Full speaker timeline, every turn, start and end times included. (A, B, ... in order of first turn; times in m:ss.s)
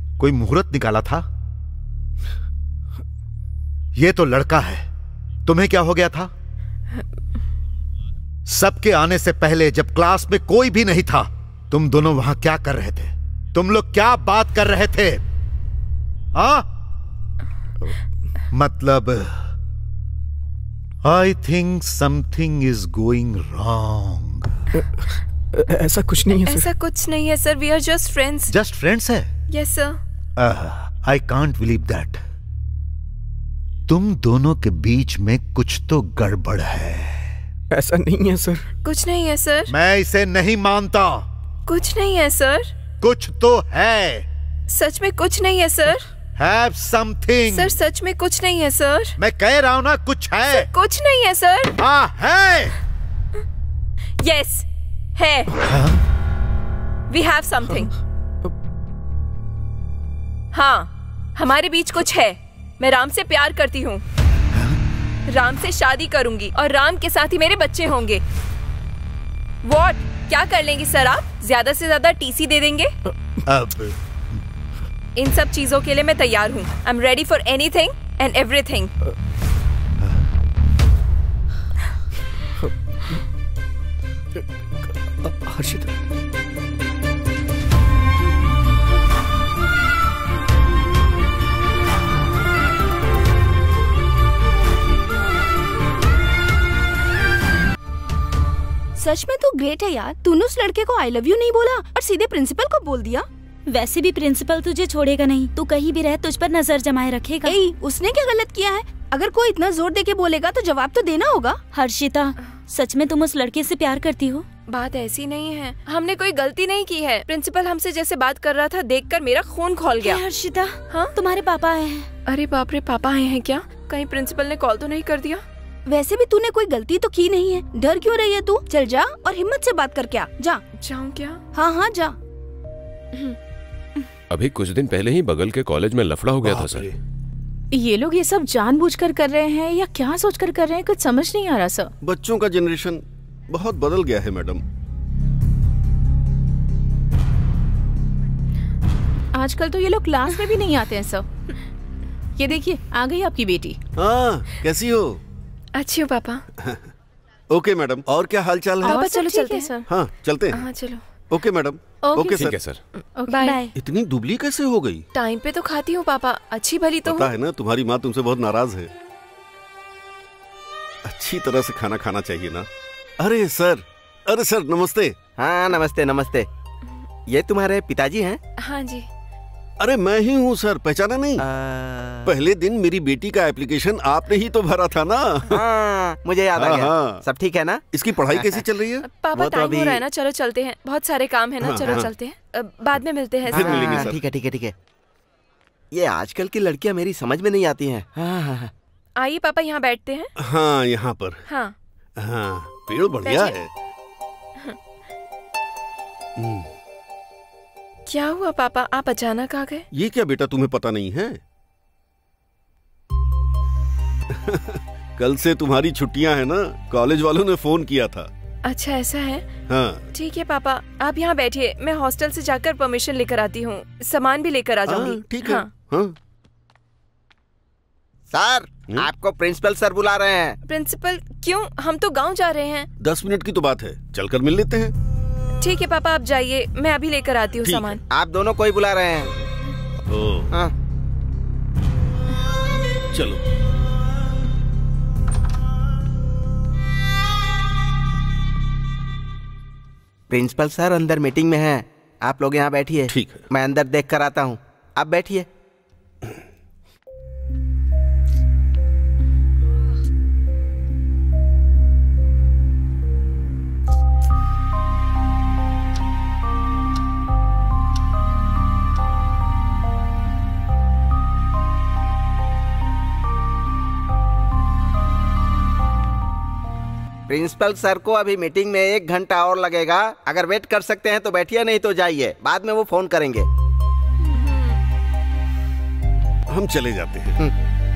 0:00.2-0:01.2 A
0:04.0-0:04.9 A
0:05.5-0:06.3 A
0:08.5-0:15.2 A
0:16.4-0:16.7 A
0:18.5-0:19.5 A
0:21.0-0:24.6 A
0:24.8-0:26.7 B
0:26.4-0:28.5 C
0:28.5-0:29.3 A
0:29.5-0:30.0 C
0:30.4-0:32.2 A
0:33.9-0:37.4 A
0:37.7-0:38.7 B
0:38.8-0:39.7 C
0:39.7-0:41.3 A
0:41.7-0:42.7 C
0:43.0-0:44.3 A
0:44.7-0:46.1 C
0:46.4-0:47.8 A
0:47.5-0:49.2 C
0:49.2-0:50.7 A
0:50.6-0:51.8 C
0:51.8-0:52.7 A
0:54.2-0:55.5 C
0:55.6-0:56.0 A
0:57.1-0:57.9 C
1:00.5-1:04.0 C
1:05.3-1:08.2 C
1:09.6-1:13.0 C
1:13.5-1:14.0 A
1:15.2-1:18.9 C
1:24.4-1:25.9 B
1:39.0-1:43.3 D
1:43.7-1:47.6 E
1:47.4-1:51.6 D
1:51.7-1:54.5 E
1:54.7-2:00.2 C
2:00.0-2:00.8 D
2:01.1-2:02.1 E
2:02.3-2:05.4 C
2:05.9-2:10.6 D
2:10.8-2:11.4 C
2:11.5-2:12.2 D
2:14.3-2:16.9 F
2:17.7-2:21.9 G
2:22.0-2:24.6 H
2:29.3-2:31.3 G
2:32.4-2:33.8 G
2:34.0-2:35.2 H
2:35.8-2:36.4 C
2:36.6-2:36.9 H
2:37.5-2:39.0 H
2:38.8-2:39.8 C
2:38.8-2:39.7 G
2:39.9-2:40.7 H
2:40.5-2:41.0 C
2:41.3-2:42.6 H
2:42.4-2:42.8 F
2:43.2-2:43.5 G
2:43.3-2:43.6 C
2:43.4-2:43.7 E
2:43.8-2:45.1 H
2:45.1-2:47.3 C
2:47.0-2:48.9 H
2:51.0-2:52.7 H
2:53.2-2:55.2 H
2:55.4-2:56.5 I
2:57.3-2:58.4 I
2:58.6-2:59.1 C
2:59.8-3:01.4 H
3:01.4-3:02.3 I
3:02.2-3:05.6 H
3:05.5-3:08.6 I
3:06.6-3:07.2 H
3:07.9-3:09.7 H
3:09.0-3:14.1 C
3:09.4-3:10.0 I
3:11.6-3:12.1 H
3:13.5-3:14.7 I
3:13.5-3:14.2 H
3:15.9-3:18.7 I
3:19.2-3:20.3 C
3:20.4-3:21.4 H
3:21.5-3:21.8 C
3:22.2-3:23.7 H
3:23.2-3:23.6 C
3:26.4-3:26.7 H
3:28.1-3:29.9 C
3:29.9-3:31.4 H
3:34.3-3:38.3 H
3:38.7-3:39.5 C
3:39.7-3:40.1 H
3:40.1-3:45.7 C
3:44.9-3:46.2 H
3:48.3-3:50.6 I
3:50.7-3:52.9 C
3:53.0-3:54.9 H
3:55.6-3:58.0 C
3:57.6-3:58.0 H
3:58.1-3:59.3 I
4:00.1-4:00.5 H
4:03.1-4:03.4 H
4:10.3-4:15.5 I
4:13.1-4:13.5 H
4:37.3-4:43.5 I
4:44.3-4:44.8 C
4:46.5-4:47.5 H